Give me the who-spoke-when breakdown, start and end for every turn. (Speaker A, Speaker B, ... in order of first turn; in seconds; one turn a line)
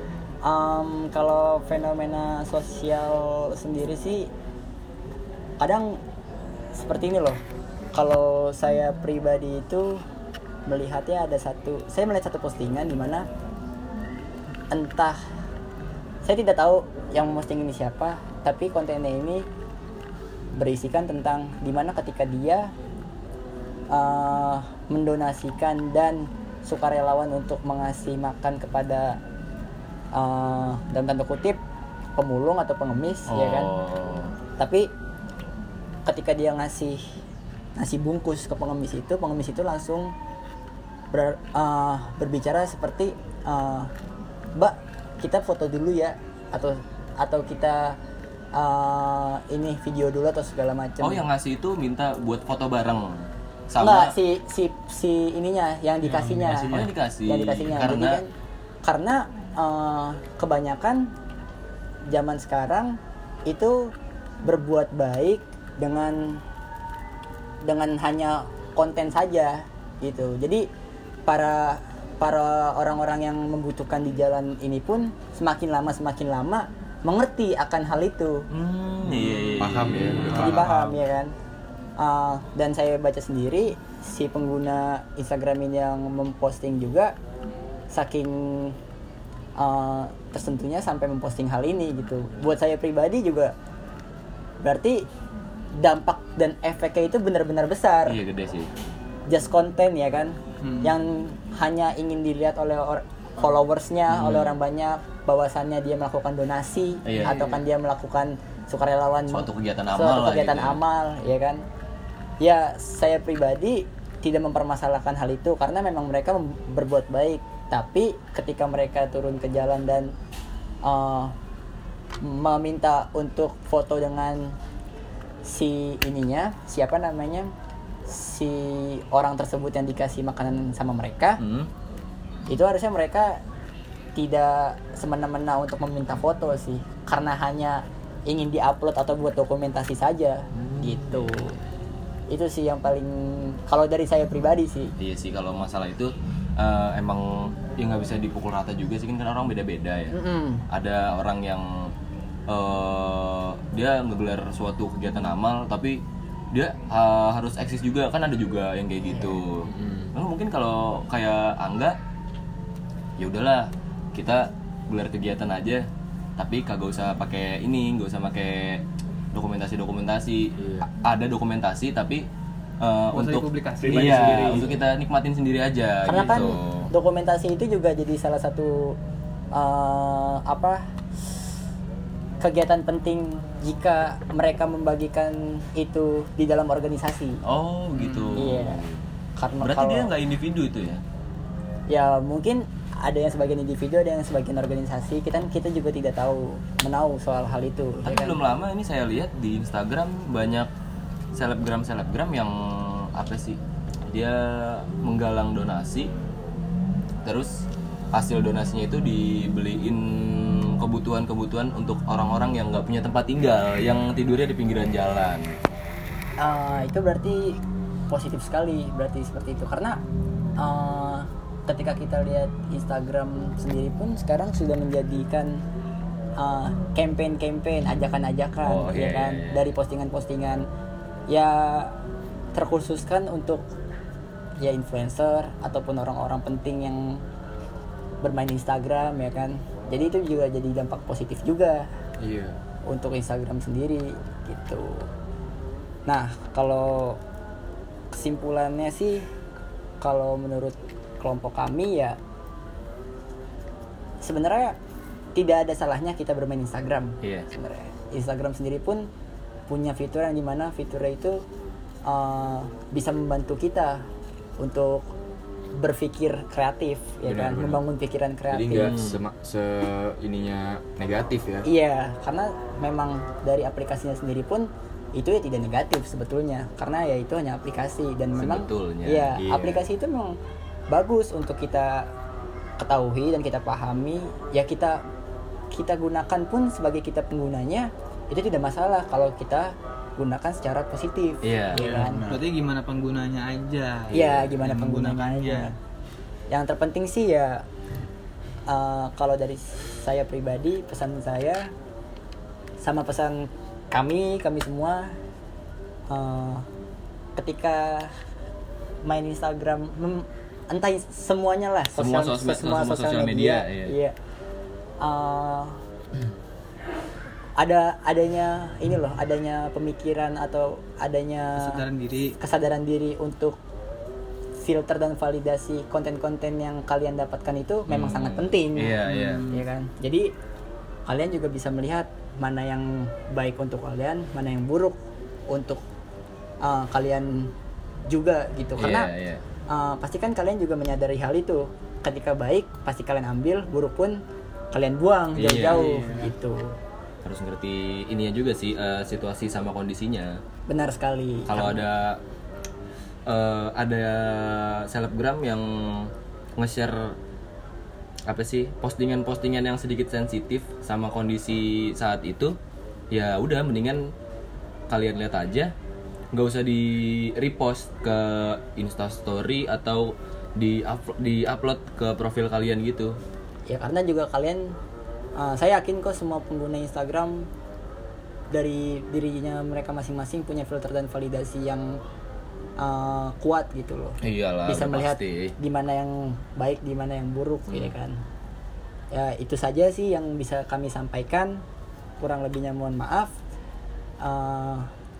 Speaker A: 0.4-4.3
Speaker A: 5.6-6.0
Speaker A: 6.7-7.4
Speaker A: 7.9-10.0
Speaker A: 10.7-13.3
Speaker A: 14.7-15.2
Speaker A: 16.2-19.5
Speaker A: 20.5-22.7
Speaker A: 23.9-29.2
Speaker A: 30.1-31.6
Speaker A: 32.2-33.7
Speaker B: 33.3-34.3
Speaker A: 34.6-34.9
Speaker A: 36.1-37.2
Speaker A: 37.8-40.1
Speaker A: 41.1-43.9
Speaker A: 44.6-48.0
Speaker A: 48.5-51.2
Speaker B: 51.0-54.1
Speaker A: 53.8-58.3
Speaker B: 56.3-58.2
Speaker A: 58.8-61.1
Speaker A: 62.1-63.9
Speaker A: 64.4-66.4
Speaker A: 67.6-70.7
Speaker A: 71.3-78.5
Speaker B: 78.5-80.7
Speaker C: 79.6-80.9
Speaker A: 80.3-81.3
Speaker A: 82.0-87.1
Speaker A: 87.9-88.8
Speaker A: 89.6-93.5
Speaker A: 94.6-95.0
Speaker A: 95.8-98.2
Speaker B: 98.1-98.7
Speaker A: 99.3-111.6
Speaker D: 100.6-100.9
Speaker B: 104.1-104.5
Speaker B: 107.0-107.6
Speaker B: 109.3-110.8
Speaker A: 112.4-120.1
Speaker A: 120.8-121.3
Speaker A: 122.2-124.6
Speaker A: 125.4-127.5
Speaker A: 128.1-131.4
Speaker B: 131.4-131.7
Speaker A: 132.5-133.4
Speaker A: 134.2-141.6
Speaker B: 140.5-141.5
Speaker A: 142.3-144.9
Speaker B: 145.0-150.2
Speaker A: 150.1-150.6
Speaker B: 150.7-151.9
Speaker B: 152.5-162.0
Speaker C: 159.7-160.1
Speaker B: 163.2-165.9
Speaker B: 166.4-172.3
Speaker C: 170.6-170.9
Speaker B: 172.8-176.9
Speaker D: 173.1-174.8
Speaker C: 173.8-174.8
Speaker A: 176.1-179.0
Speaker A: 179.5-181.3
Speaker A: 182.4-187.4
Speaker B: 187.4-189.1
Speaker D: 187.9-188.5
Speaker A: 188.4-188.8
Speaker A: 189.4-190.1
Speaker B: 189.6-191.0
Speaker A: 191.9-198.4
Speaker B: 198.0-200.7
Speaker B: 201.3-206.1
Speaker B: 207.2-215.6
Speaker A: 216.4-220.0
Speaker A: 220.6-225.6
Speaker A: 226.4-230.7
Speaker B: 228.6-229.7
Speaker A: 231.3-232.0
Speaker A: 232.5-233.6
Speaker A: 234.6-237.2
Speaker A: 238.2-241.9
Speaker C: 242.2-242.6
Speaker A: 242.9-245.1
Speaker A: 246.1-247.2
Speaker A: 248.1-249.3
Speaker A: 250.0-252.2
Speaker A: 254.2-254.8
Speaker A: 255.3-259.1
Speaker B: 257.2-257.5
Speaker A: 259.7-261.4
Speaker A: 262.1-264.1
Speaker A: 264.6-265.1
Speaker A: 265.7-268.9
Speaker C: 267.2-267.8
Speaker C: 268.5-271.7
Speaker B: 268.7-269.2
Speaker A: 271.6-280.4
Speaker B: 278.4-279.4
Speaker C: 279.4-279.9
Speaker A: 280.9-282.1
Speaker A: 282.8-285.0
Speaker A: 285.7-292.2
Speaker B: 291.4-291.8
Speaker C: 291.7-292.5
Speaker D: 292.3-295.7
Speaker B: 294.1-294.5
Speaker A: 294.1-295.8
Speaker A: 296.5-297.7
Speaker A: 298.7-301.7
Speaker A: 302.8-305.2
Speaker A: 306.1-306.7
Speaker A: 307.4-308.2
Speaker A: 309.0-314.1
Speaker B: 312.0-313.9
Speaker A: 315.0-315.8
Speaker A: 317.6-321.8
Speaker D: 321.6-322.4
Speaker A: 322.4-323.6
Speaker A: 324.6-330.3
Speaker B: 327.9-329.5
Speaker D: 329.1-329.6
Speaker A: 331.1-335.0
Speaker A: 335.5-335.8
Speaker A: 336.6-337.5
Speaker A: 338.1-339.1
Speaker B: 338.8-339.4
Speaker A: 339.7-346.8
Speaker B: 345.4-346.1
Speaker D: 345.7-346.3
Speaker B: 347.2-350.4
Speaker A: 350.7-351.8
Speaker B: 351.5-352.2
Speaker B: 353.3-357.2
Speaker B: 358.3-362.6
Speaker B: 363.1-364.1
Speaker B: 364.9-365.7
Speaker B: 366.3-373.2
Speaker A: 373.7-374.8
Speaker A: 375.4-377.5
Speaker A: 378.5-382.0
Speaker A: 382.8-388.2
Speaker B: 384.2-385.5
Speaker A: 389.1-391.6
Speaker A: 392.2-393.3
Speaker A: 394.2-394.9